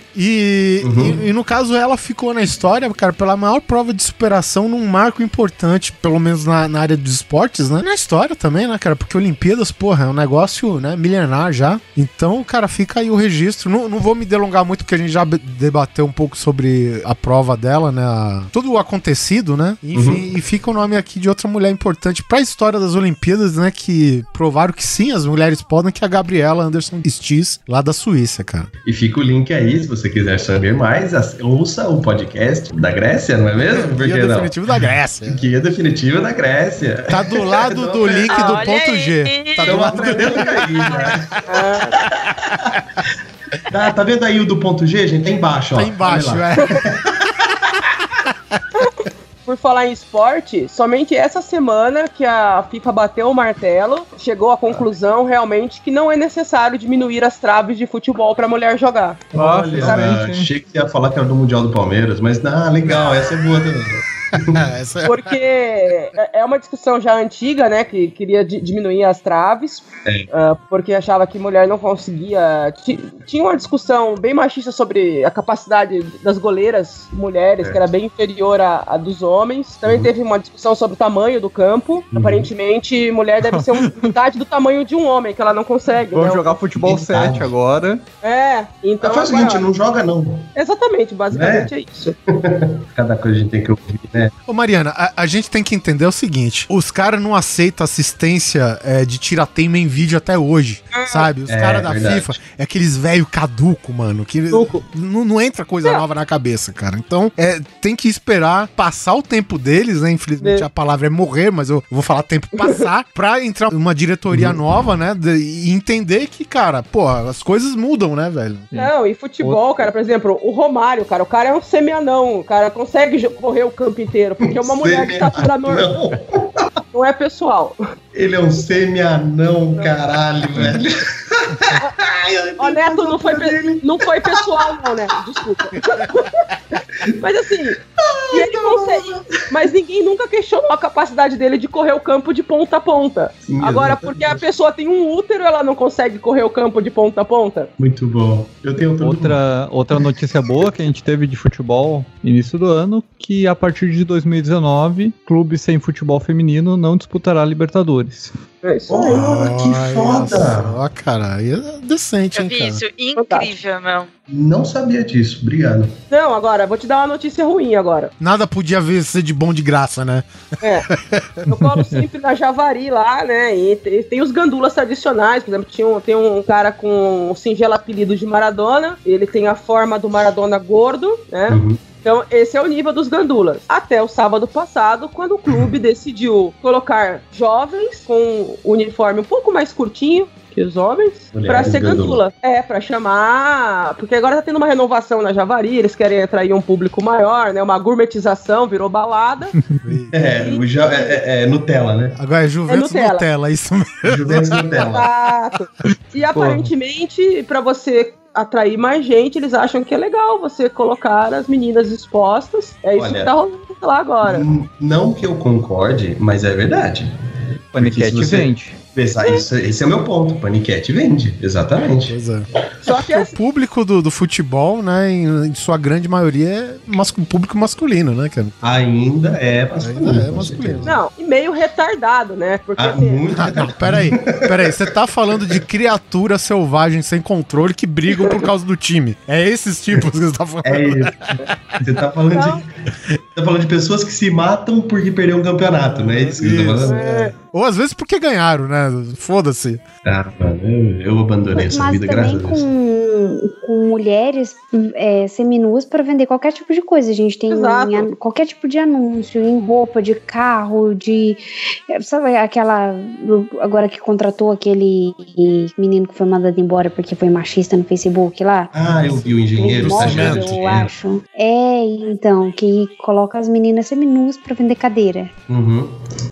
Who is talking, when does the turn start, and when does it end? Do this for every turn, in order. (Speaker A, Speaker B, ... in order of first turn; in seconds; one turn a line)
Speaker A: 0.1-28.7
Speaker B: 0.8-1.2
Speaker B: 19.9-20.2
Speaker B: 28.9-34.5
Speaker A: 33.6-35.5
Speaker B: 35.3-38.7
Speaker A: 37.1-41.4
Speaker C: 38.3-39.9
Speaker B: 39.6-41.3
Speaker D: 41.5-42.0
Speaker B: 41.9-42.7
Speaker B: 43.7-47.7
Speaker A: 45.7-46.8
Speaker D: 49.5-59.2
Speaker B: 59.3-64.6
Speaker E: 59.4-60.5
Speaker D: 59.8-60.1
Speaker A: 64.5-65.2
Speaker D: 65.0-86.5
Speaker B: 79.8-80.1
Speaker B: 82.1-82.5
Speaker E: 83.5-84.1
Speaker E: 86.1-88.0
Speaker B: 86.8-87.5
Speaker D: 88.2-89.6
Speaker B: 89.0-90.5
Speaker D: 90.6-92.2
Speaker B: 91.3-91.7
Speaker B: 92.3-94.3
Speaker A: 94.5-118.7
Speaker D: 100.9-101.3
Speaker B: 101.5-102.4
Speaker D: 104.5-104.8
Speaker D: 110.4-110.7
Speaker D: 112.6-112.9
Speaker D: 118.7-125.9
Speaker B: 124.5-126.6
Speaker D: 126.9-127.8
Speaker B: 128.1-134.9
Speaker D: 132.6-136.4
Speaker D: 137.1-137.8
Speaker B: 138.0-139.3
Speaker D: 138.3-147.7
Speaker B: 143.5-144.4
Speaker B: 147.8-149.4
Speaker E: 149.0-158.3
Speaker D: 158.6-159.2
Speaker B: 158.9-160.8
Speaker A: 159.1-162.8
Speaker C: 162.3-164.1
Speaker D: 163.2-163.5
Speaker B: 164.3-165.9
Speaker D: 166.1-168.1
Speaker A: 168.2-170.3
Speaker D: 170.6-170.9
Speaker A: 170.9-171.4
Speaker D: 171.5-199.6
Speaker B: 181.5-181.8
Speaker B: 191.3-192.2
Speaker A: 199.8-200.2
Speaker B: 200.1-202.2
Speaker D: 200.3-201.2
Speaker A: 202.2-204.6
Speaker D: 202.7-203.2
Speaker B: 204.1-205.1
Speaker D: 204.7-214.5
Speaker E: 206.4-206.7
Speaker B: 213.0-213.3
Speaker B: 214.3-217.1
Speaker E: 217.7-218.8
Speaker B: 217.8-222.2
Speaker A: 222.1-228.8
Speaker D: 222.8-223.4
Speaker B: 228.6-230.9
Speaker A: 229.8-230.9
Speaker D: 230.8-233.2
Speaker B: 232.8-234.8
Speaker A: 233.3-241.5
Speaker B: 240.7-242.7
Speaker D: 242.3-242.6
Speaker B: 243.3-247.0
Speaker A: 245.9-249.8
Speaker D: 246.8-247.3
Speaker B: 250.1-252.6
Speaker F: 251.5-268.7
Speaker D: 257.5-258.1
Speaker B: 268.7-270.9
Speaker A: 269.1-270.7
Speaker F: 269.6-275.3
Speaker B: 275.5-276.0